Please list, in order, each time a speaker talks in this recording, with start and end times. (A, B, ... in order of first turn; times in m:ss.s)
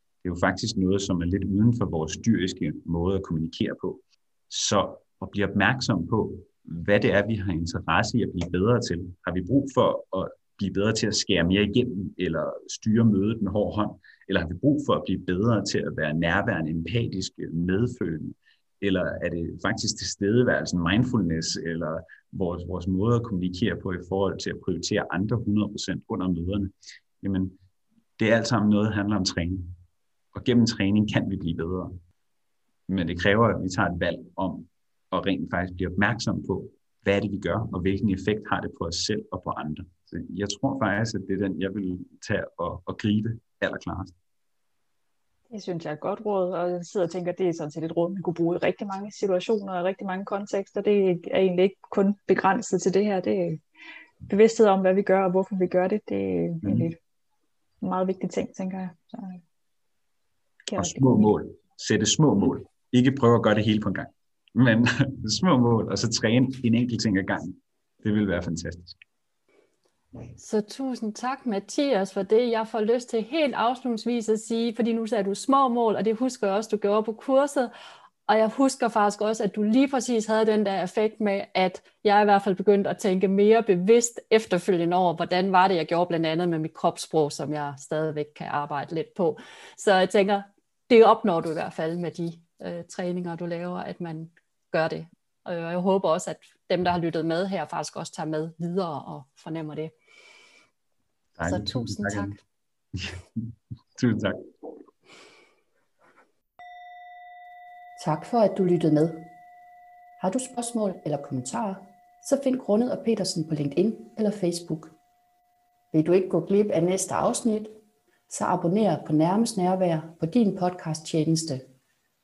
0:00.2-0:27.6 A
0:28.2-0:29.8 A
0:30.3-0:32.0 A
0:32.9-0:44.1 A
0:45.5-0:53.6 B
0:54.3-0:57.0 B
0:57.8-0:59.4 B
1:00.7-1:01.3 B
1:00.8-1:09.0 A
1:10.4-1:17.7 C
1:18.3-1:39.9 C
1:41.4-1:42.4 A
1:41.4-1:42.4 C
1:42.9-1:44.7 A
1:48.0-1:49.3 C
1:50.2-1:54.9 C
1:55.9-1:57.7 C
1:58.3-2:01.6 C